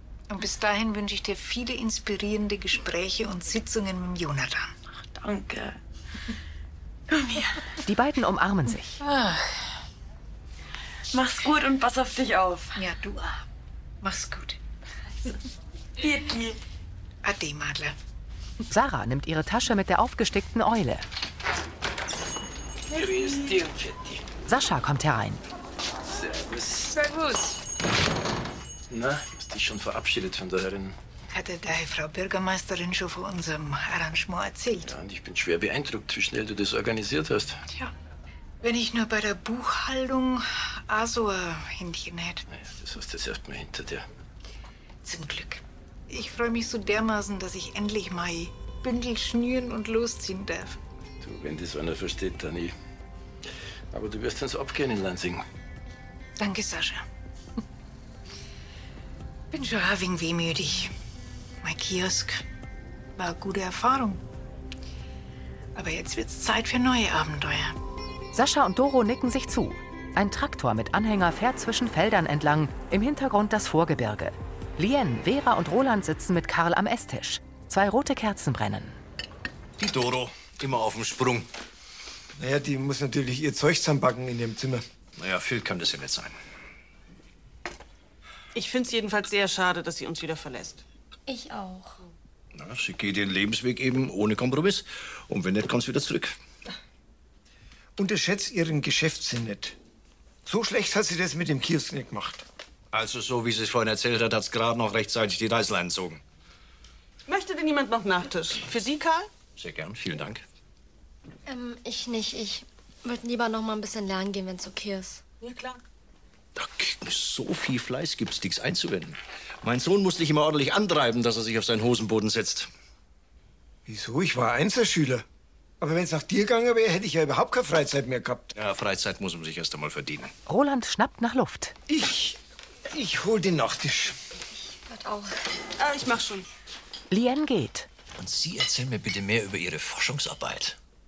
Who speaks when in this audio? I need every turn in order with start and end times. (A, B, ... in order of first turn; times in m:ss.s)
0:00.3-0:04.7 A
0:05.1-0:05.8 B
0:07.1-0:07.6 B
0:07.8-0:09.0 C
0:09.0-0:09.5 A
0:11.1-0:12.8 B
0:12.8-0:13.4 A
0:14.0-0:14.6 A
0:16.0-0:16.6 B
0:17.2-0:18.0 A
0:18.7-0:21.0 C
0:22.9-0:24.2 D
0:24.4-0:25.4 C
0:26.1-0:27.0 D
0:28.9-0:31.0 D
0:31.3-0:34.9 A
0:34.8-0:37.6 D
0:38.6-0:42.4 A
0:42.5-0:44.0 D
0:45.0-0:50.8 A
0:51.2-0:52.7 D
0:53.9-0:55.4 D
0:56.4-0:57.0 A
0:59.5-1:00.9 A
1:01.6-1:02.4 A
1:03.2-1:04.2 A
1:05.7-1:07.8 A
1:08.3-1:19.0 C
1:19.8-1:21.5 E
1:22.4-1:24.8 F
1:25.2-1:26.3 E
1:28.5-1:30.8 G
1:31.3-1:32.0 H
1:32.5-1:36.3 E
1:38.0-1:39.8 F
1:40.4-1:42.4 F
1:42.9-1:46.2 E
1:47.2-1:49.3 G
1:49.6-1:50.4 E
1:51.4-1:55.2 H
1:55.4-1:55.8 G
1:56.5-2:02.7 E
2:03.8-2:05.2 F
2:05.8-2:08.5 F
2:08.5-2:10.3 E
2:10.5-2:11.7 C
2:11.9-2:12.4 F
2:12.9-2:14.2 F
2:14.7-2:15.3 H
2:15.8-2:16.5 G
2:17.1-2:17.9 C
2:18.2-2:20.8 E